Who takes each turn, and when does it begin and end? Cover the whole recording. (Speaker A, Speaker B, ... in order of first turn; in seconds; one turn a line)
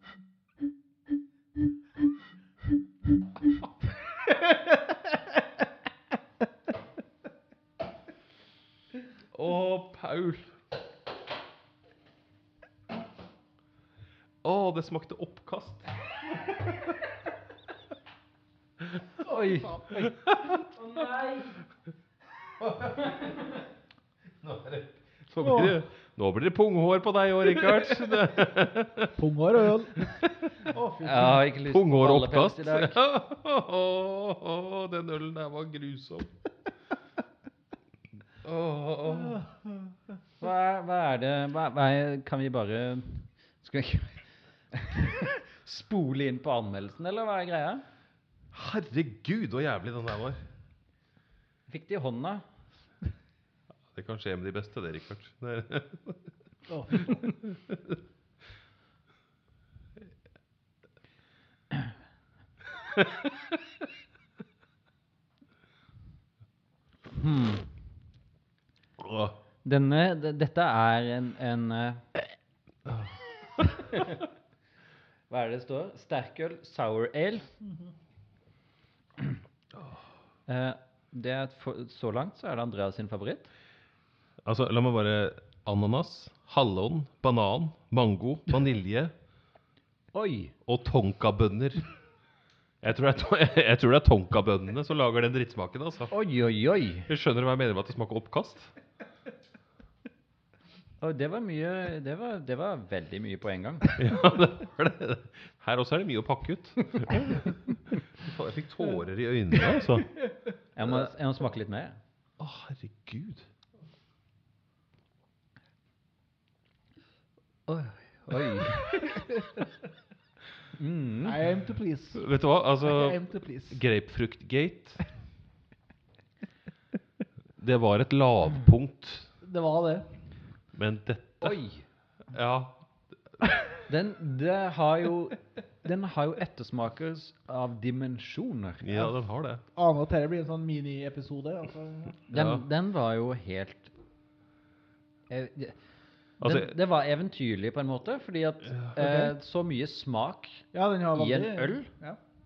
Speaker A: 4.3-4.7
Speaker B: 9.3-10.5
Speaker B: 14.4-15.9
Speaker C: 19.2-20.1
Speaker B: 20.1-20.4
Speaker C: 20.6-21.6
Speaker C: 22.8-23.5
Speaker B: 24.4-29.2
Speaker A: 25.4-25.8
Speaker A: 29.1-30.1
Speaker B: 30.0-30.4
Speaker A: 30.7-31.5
Speaker C: 31.0-33.0
Speaker B: 31.7-36.3
Speaker B: 38.4-39.5
Speaker A: 39.2-39.8
Speaker C: 40.4-47.8
Speaker B: 48.5-50.4
Speaker C: 51.7-52.4
Speaker B: 53.9-56.2
Speaker A: 56.7-57.1
Speaker B: 56.9-58.0
Speaker C: 67.1-67.7
Speaker B: 69.0-69.4
Speaker C: 69.6-72.0
Speaker B: 72.9-73.2
Speaker C: 73.7-74.3
Speaker C: 75.3-77.5
Speaker C: 80.5-83.5
Speaker B: 84.4-89.1
Speaker C: 90.1-90.5
Speaker B: 90.7-91.8
Speaker B: 92.8-96.2
Speaker C: 96.1-97.1
Speaker B: 97.1-98.7
Speaker C: 101.0-104.0
Speaker B: 103.9-110.1
Speaker C: 110.8-112.0
Speaker B: 112.4-113.5
Speaker C: 117.7-119.1
Speaker A: 119.0-119.6
Speaker C: 120.8-121.4
Speaker A: 121.2-123.8
Speaker B: 122.1-125.0
Speaker B: 127.6-129.3
Speaker A: 129.4-130.2
Speaker B: 130.7-131.6
Speaker C: 131.4-131.9
Speaker B: 132.3-132.8
Speaker C: 133.9-138.9
Speaker B: 138.8-139.6
Speaker A: 139.7-142.3
Speaker B: 142.3-142.7
Speaker C: 142.3-143.9
Speaker C: 145.3-145.8
Speaker C: 146.4-150.6
Speaker B: 146.4-146.8
Speaker B: 148.7-148.9
Speaker A: 149.0-149.3
Speaker A: 150.7-152.2
Speaker C: 151.1-151.9